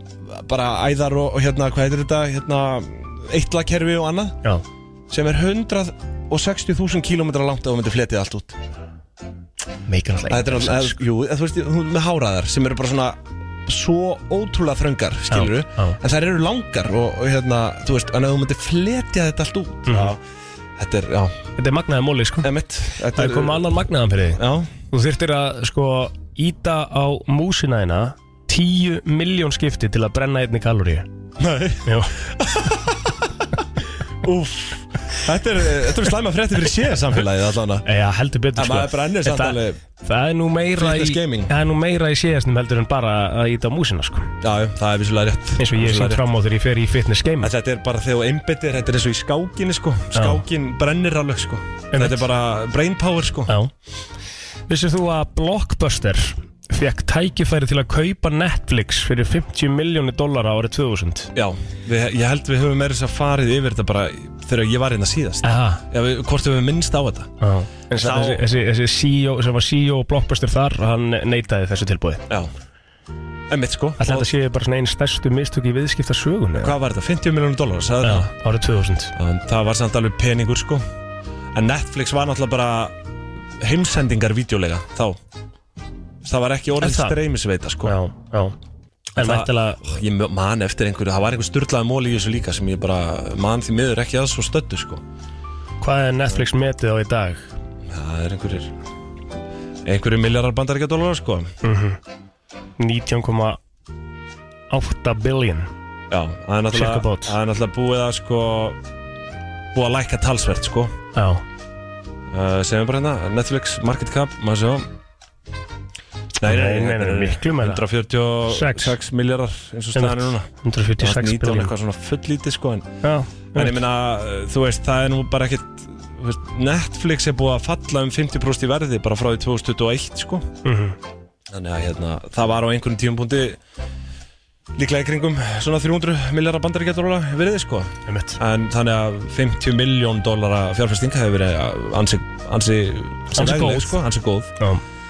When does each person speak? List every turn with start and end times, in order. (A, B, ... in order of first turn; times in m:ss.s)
0:00.2-0:04.4 A
0:05.1-0:08.6 A
0:09.9-0:11.0 B
0:10.3-0:20.2 A
0:15.3-0:16.0 B
0:19.9-0:20.1 B
0:20.8-0:21.4 A
0:21.6-0:22.5 B
0:22.4-0:23.7 A
0:23.1-0:31.0 B
0:24.4-0:24.7 A
0:31.4-0:32.9 A
0:31.8-0:32.1 B
0:34.2-0:37.8 A
0:37.8-0:44.3 B
0:38.6-0:39.8 A
0:40.8-0:41.5 A
0:44.4-0:46.2 A
0:45.6-0:47.5 B
0:47.4-0:53.5 A
0:50.1-0:50.4 B
0:51.9-0:52.2 B
0:54.7-1:01.3 B
1:01.3-1:07.3 A
1:05.4-1:05.8 B
1:07.4-1:12.2 B
1:07.9-1:08.4 A
1:13.5-1:14.3 A
1:14.0-1:16.7 B
1:16.6-1:18.3 A
1:18.0-1:19.1 B
1:19.2-1:20.8 A
1:21.5-1:23.0 A
1:23.6-1:25.2 A
1:26.2-1:28.0 A
1:26.8-1:27.2 B
1:27.8-1:28.6 B
1:29.2-1:30.0 B
1:29.2-1:35.0 A
1:35.8-1:37.4 B
1:37.9-1:38.7 A
1:39.8-1:41.5 A
1:41.6-1:42.0 B
1:42.8-1:43.6 B
1:44.7-1:45.7 B
1:46.1-1:48.8 A
1:46.7-1:47.4 B
1:49.7-1:51.0 A
1:51.1-1:51.4 B
1:52.3-1:54.9 A
1:56.4-2:00.5 A
1:56.4-1:57.8 B
1:58.4-1:58.9 B
1:59.9-2:01.7 B
2:01.0-2:02.9 A
2:03.0-2:03.8 B
2:03.5-2:10.5 A
2:10.6-2:11.0 B
2:11.5-2:13.6 A
2:14.7-2:24.5 A
2:18.1-2:18.4 B
2:23.3-2:24.0 B